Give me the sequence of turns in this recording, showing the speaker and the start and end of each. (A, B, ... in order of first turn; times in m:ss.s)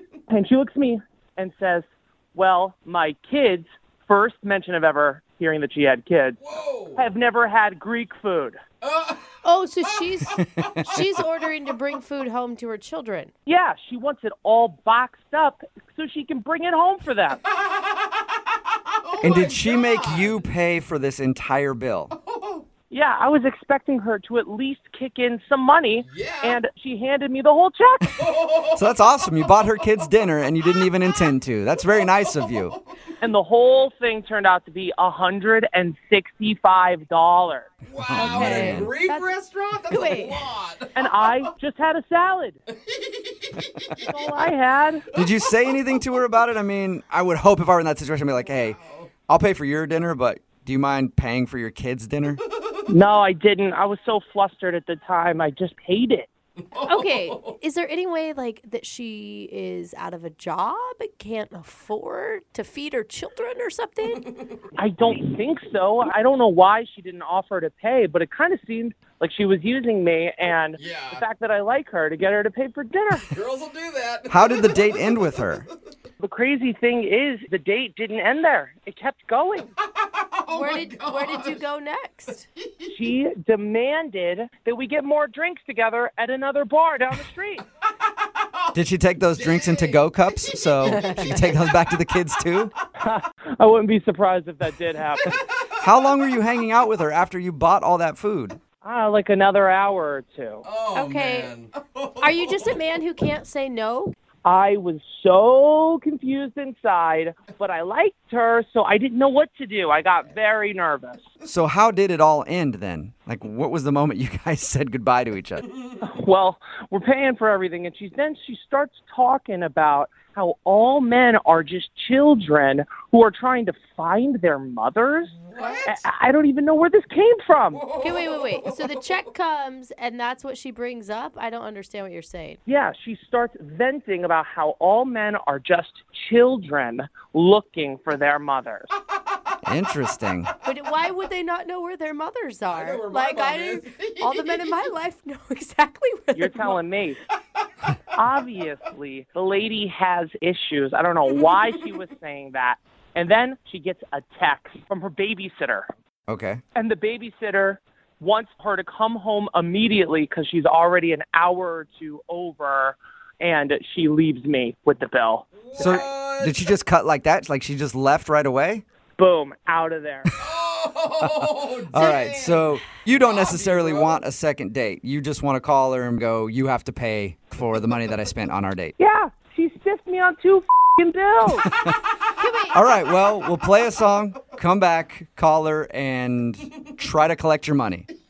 0:00.3-0:06.4 A
0:06.4-0:07.1 B
0:07.0-0:08.6 A
0:08.8-0:09.3 B
0:09.4-0:13.3 C
0:13.5-0:17.4 A
0:17.6-0:18.1 B
0:19.0-0:20.4 B
0:19.2-0:22.1 D
0:22.2-0:22.6 B
0:22.9-0:28.3 A
0:26.1-0:26.6 B
0:28.2-0:28.9 B
0:28.8-0:32.8 D
0:32.0-0:32.8 B
0:33.2-0:37.7 A
0:37.8-0:41.1 B
0:38.1-0:38.9 D
0:38.1-0:39.3 C
0:39.9-0:40.4 C
0:41.0-0:42.6 A
0:44.0-0:45.1 A
0:45.1-0:48.8 D
0:48.8-0:49.1 B
0:49.3-0:52.4 D
0:52.9-0:56.3 A
0:56.7-0:57.6 B
0:56.8-1:04.3 C
1:04.8-1:13.3 A
1:10.8-1:11.2 B
1:13.2-1:14.9 B
1:14.3-1:15.7 D
1:16.2-1:19.7 A
1:20.0-1:21.6 B
1:20.5-1:22.5 C
1:22.9-1:27.6 A
1:28.7-1:32.7 D
1:29.4-1:30.0 B
1:30.9-1:31.4 C
1:33.0-1:35.4 A
1:35.8-1:38.6 D
1:38.8-1:40.6 A
1:40.6-1:42.7 B
1:40.9-1:41.5 C
1:42.2-1:44.1 C
1:44.4-1:51.2 A
1:51.4-1:55.7 D
1:56.0-2:07.9 A
2:05.5-2:06.0 B
2:05.6-2:05.9 C
2:07.7-2:08.9 B
2:08.0-2:12.6 C
2:12.7-2:18.9 A
2:19.6-2:20.5 D
2:20.6-2:26.8 C
2:22.7-2:24.7 B
2:26.4-2:27.2 A
2:28.2-2:35.9 A
2:36.3-2:36.6 D
2:36.8-2:46.0 A
2:45.6-2:46.6 B
2:45.8-2:48.8 D
2:49.2-2:50.4 A
2:50.4-2:54.2 B
2:51.2-2:59.0 D
2:52.0-2:52.7 C
2:59.0-3:01.7 A
3:02.4-3:02.9 C
3:02.7-3:08.1 D